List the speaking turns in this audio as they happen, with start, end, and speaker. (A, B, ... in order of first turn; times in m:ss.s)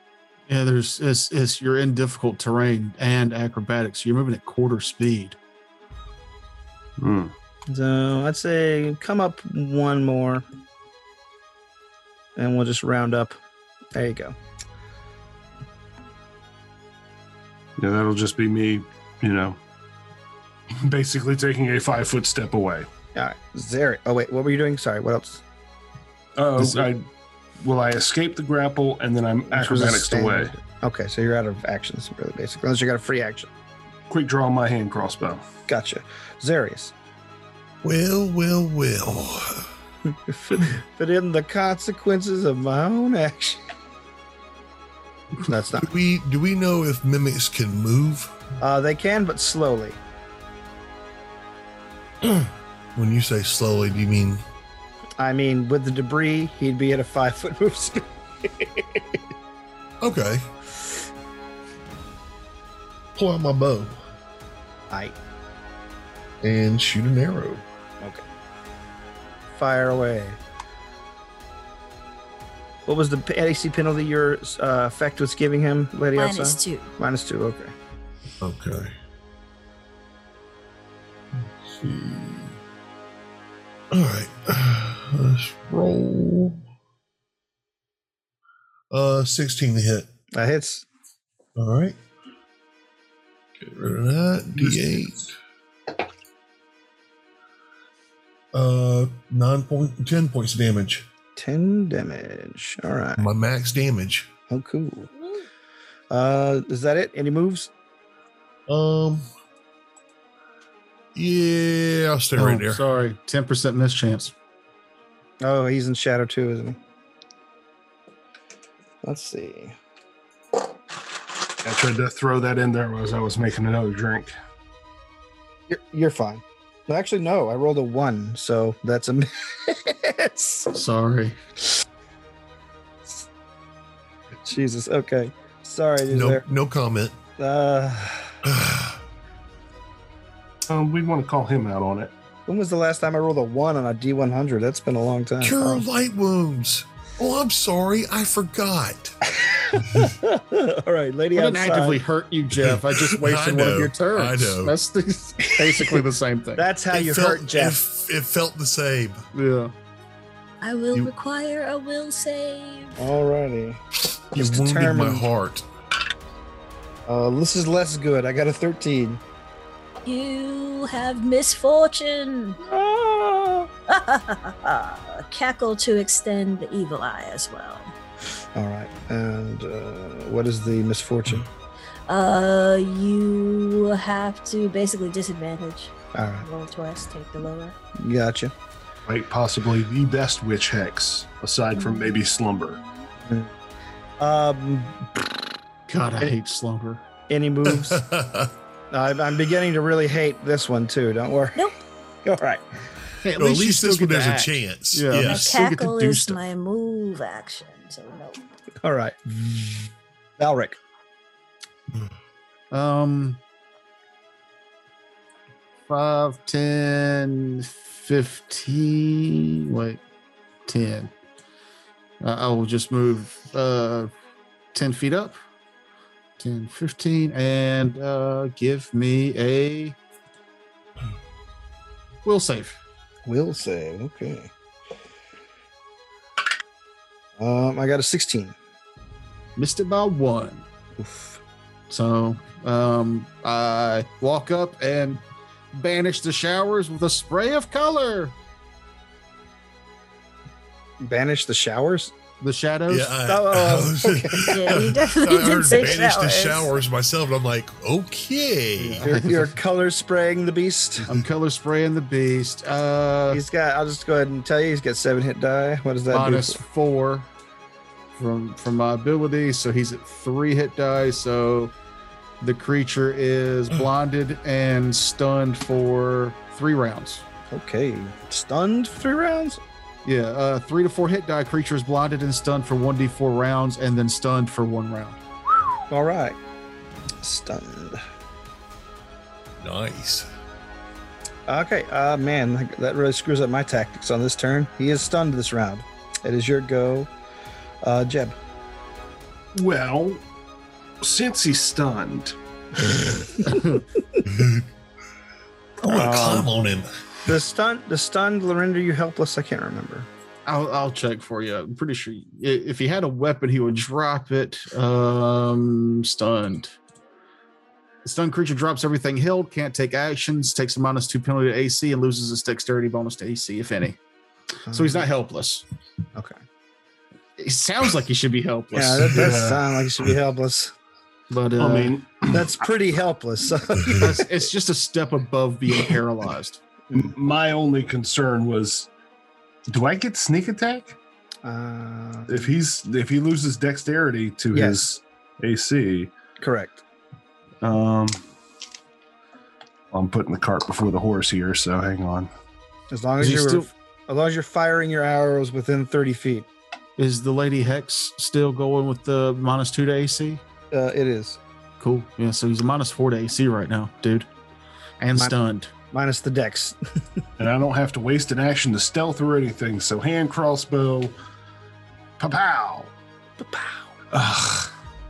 0:00.5-0:05.4 A
0:07.0-0:07.3 B
0:07.7-0:10.4 C
0:12.4-0:13.4 C
0:14.0-0:14.4 C
0:17.8-0:19.6 B
0:20.8-0:22.9 B
0:23.1-0:25.4 C
0:26.4-0:27.0 B
0:27.6-0:30.5 B
0:29.5-0:33.5 C
0:34.1-0:35.4 B
0:35.7-0:36.9 C
0:37.8-0:39.7 D
0:40.1-0:43.6 C
0:45.4-0:45.9 C
0:45.8-0:48.3 D
0:48.6-0:50.0 C
0:52.2-0:54.4 D
0:55.2-0:59.2 C
1:00.0-1:00.5 D
1:03.1-1:04.0 D
1:04.9-1:05.1 C
1:06.4-1:07.6 D
1:09.5-1:10.4 C
1:12.9-1:17.7 C
1:16.1-1:17.0 E
1:18.4-1:19.0 D
1:21.6-1:22.5 D
1:23.9-1:26.6 D
1:28.9-1:30.1 D
1:30.4-1:30.8 C
1:31.6-1:32.0 D
1:33.6-1:35.3 D
1:38.5-1:41.1 D
1:41.4-1:43.3 C
1:43.2-1:44.3 D
1:44.5-1:45.1 C
1:46.1-1:47.7 C
1:48.7-1:49.3 D
1:51.1-1:52.8 D
1:52.4-1:54.3 A
1:55.4-1:56.8 C
1:59.0-1:59.8 C
2:01.6-2:04.3 B
2:05.7-2:10.7 C
2:10.7-2:11.4 A
2:14.4-2:16.4 C
2:16.1-2:17.1 D
2:17.4-2:18.3 C
2:18.4-2:19.0 D
2:20.7-2:22.1 B
2:22.5-2:25.8 C
2:25.4-2:29.2 D
2:29.4-2:32.0 C
2:31.4-2:36.6 A
2:32.5-2:34.7 D
2:36.6-2:37.8 C
2:36.9-2:39.2 D
2:39.3-2:39.7 A
2:40.6-2:43.0 E
2:43.0-2:43.8 C
2:44.3-2:45.7 D
2:44.4-2:45.3 C
2:47.1-2:49.2 C
2:50.0-2:52.6 E
2:52.6-2:53.7 C
2:53.9-2:57.9 E
2:58.6-3:01.5 C
3:02.1-3:07.8 E
3:06.1-3:06.4 C
3:08.0-3:08.5 C
3:09.1-3:12.8 B
3:11.8-3:12.1 E
3:13.2-3:13.5 C
3:14.2-3:15.1 C
3:15.9-3:17.0 A
3:17.3-3:18.1 C
3:17.7-3:18.5 D
3:18.9-3:21.7 C
3:22.2-3:22.6 C
3:23.2-3:26.4 A
3:23.4-3:25.6 D
3:25.2-3:28.4 E
3:28.8-3:30.8 C
3:32.7-3:33.4 A
3:35.9-3:40.0 A
3:40.7-3:41.1 A
3:42.2-3:44.1 A
3:44.7-3:45.4 A
3:46.4-3:50.0 A
3:52.2-3:52.8 A
3:53.3-3:54.5 C
3:57.4-3:58.6 C
3:59.6-4:00.6 A
4:01.0-4:01.4 C
4:01.9-4:05.2 A
4:05.7-4:08.3 A
4:11.0-4:12.1 C
4:12.4-4:13.1 A
4:12.9-4:19.1 D
4:13.3-4:14.8 C
4:14.4-4:16.7 E
4:18.8-4:19.5 A
4:19.0-4:21.1 C
4:21.1-4:23.4 A
4:23.3-4:26.6 C
4:26.1-4:27.3 A
4:28.2-4:31.8 A
4:32.4-4:37.2 A
4:37.5-4:39.6 C
4:40.0-4:45.2 A
4:45.9-4:46.4 C
4:47.2-4:48.0 C
4:49.6-4:50.3 D
4:51.5-4:57.1 C
4:57.8-4:58.4 C
4:59.5-5:00.2 B
5:01.0-5:02.4 B
5:03.4-5:03.8 A
5:04.3-5:04.7 D
5:05.8-5:06.9 D
5:05.8-5:06.5 A
5:07.3-5:10.1 C
5:10.4-5:16.8 A
5:18.0-5:24.0 A
5:24.7-5:25.6 A
5:24.7-5:25.1 C
5:27.4-5:29.2 A
5:28.7-5:30.7 C
5:29.1-5:29.7 B
5:31.3-5:32.0 A
5:31.6-5:32.6 B
5:32.3-5:34.4 C
5:34.0-5:36.6 A
5:36.9-5:38.9 B
5:39.7-5:41.0 B
5:41.4-5:42.5 C
5:42.3-5:46.1 B
5:44.5-5:44.8 C
5:46.4-5:46.8 C
5:47.6-5:48.2 B
5:49.9-5:52.3 B
5:52.9-5:56.5 C
5:53.2-5:53.7 A
5:57.0-6:00.4 A
6:00.7-6:01.4 C
6:01.8-6:04.3 A
6:05.0-6:05.7 A
6:05.9-6:06.8 C
6:07.4-6:11.1 B
6:12.2-6:12.9 B
6:13.4-6:13.9 C
6:14.1-6:14.7 B